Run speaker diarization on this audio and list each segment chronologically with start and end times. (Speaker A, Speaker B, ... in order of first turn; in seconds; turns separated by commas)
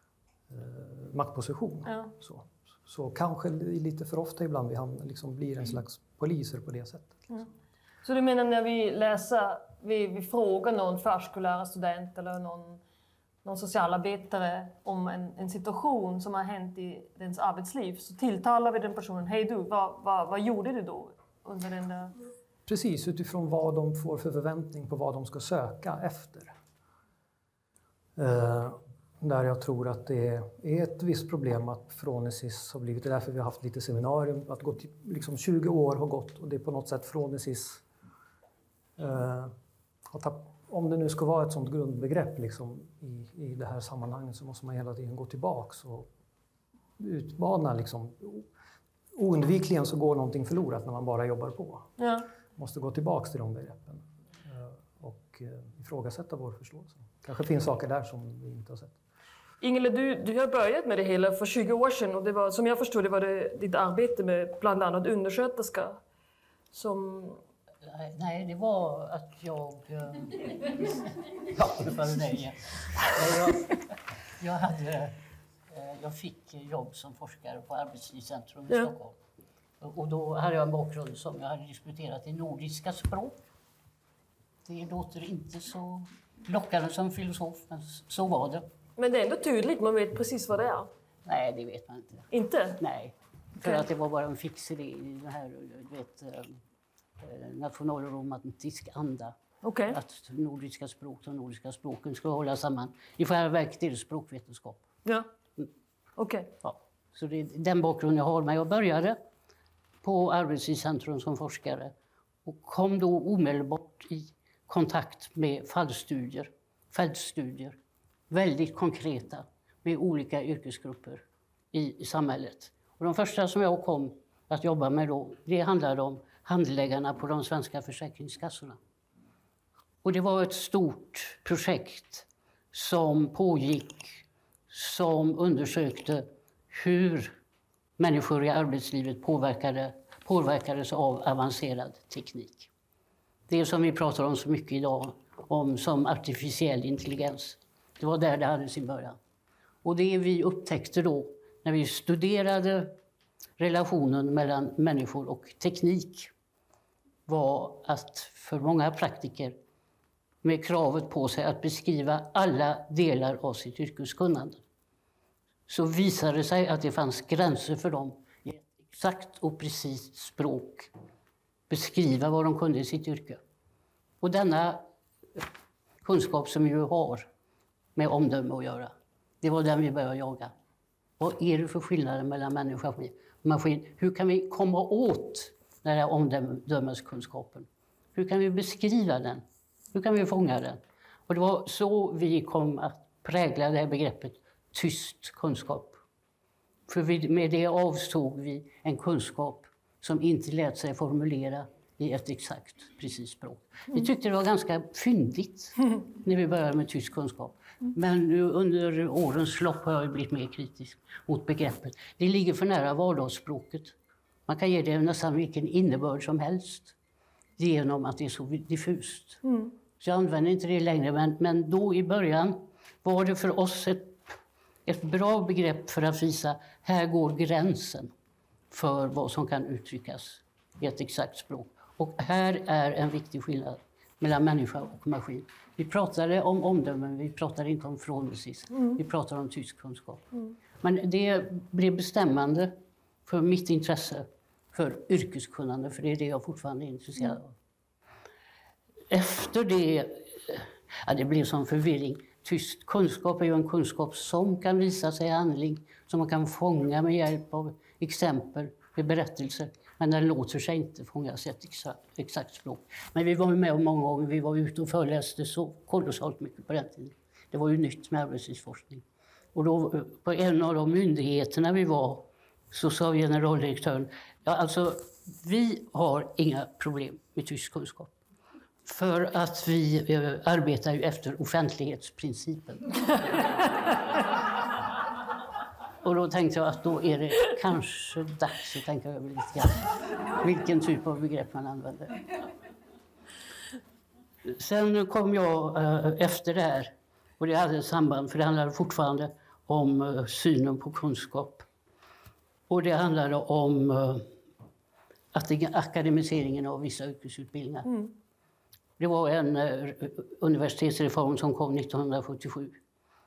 Speaker A: 0.5-7.2, Speaker B: 1.9-2.1, Speaker B: 8.0-12.8, Speaker B: 13.4-22.1, Speaker A: 22.7-26.5, Speaker A: 28.2-37.8, Speaker A: 39.0-39.5, Speaker A: 40.1-46.1, Speaker A: 47.0-48.5, Speaker A: 49.1-51.9, Speaker B: 52.0-52.3, Speaker A: 52.6-59.0, Speaker B: 59.6-66.0, Speaker B: 66.7-67.4, Speaker C: 67.8-73.8, Speaker C: 74.4-75.2, Speaker C: 75.7-79.2, Speaker C: 79.8-83.4, Speaker C: 84.7-88.7, Speaker B: 89.0-90.9, Speaker C: 91.2-92.3, Speaker B: 92.3-92.8, Speaker C: 92.8-96.6, Speaker C: 97.2-99.3, Speaker B: 99.6-100.0, Speaker C: 99.9-104.8, Speaker B: 106.2-106.5, Speaker C: 106.6-109.2, Speaker C: 110.0-111.9, Speaker C: 112.5-117.8, Speaker C: 118.3-128.8, Speaker C: 130.0-137.3, Speaker C: 138.0-142.7, Speaker C: 143.5-149.2, Speaker C: 149.8-152.9, Speaker C: 153.6-156.3, Speaker C: 157.3-159.6, Speaker C: 160.4-164.6, Speaker C: 165.7-170.9, Speaker C: 171.7-173.4, Speaker C: 174.2-174.8, Speaker C: 176.0-177.3, Speaker C: 178.0-180.5, Speaker C: 181.2-196.0, Speaker C: 196.9-213.9, Speaker C: 214.5-216.9, Speaker C: 217.6-219.4, Speaker B: 219.4-219.7, Speaker C: 220.0-228.1, Speaker C: 228.7-242.8, Speaker C: 243.3-247.6, Speaker C: 249.1-269.0, Speaker C: 269.6-278.2, Speaker C: 278.9-283.1, Speaker C: 286.0-289.9, Speaker C: 290.4-292.2, Speaker C: 294.5-301.7, Speaker C: 302.7-304.3, Speaker C: 305.3-307.9, Speaker B: 307.9-308.1, Speaker C: 309.0-312.8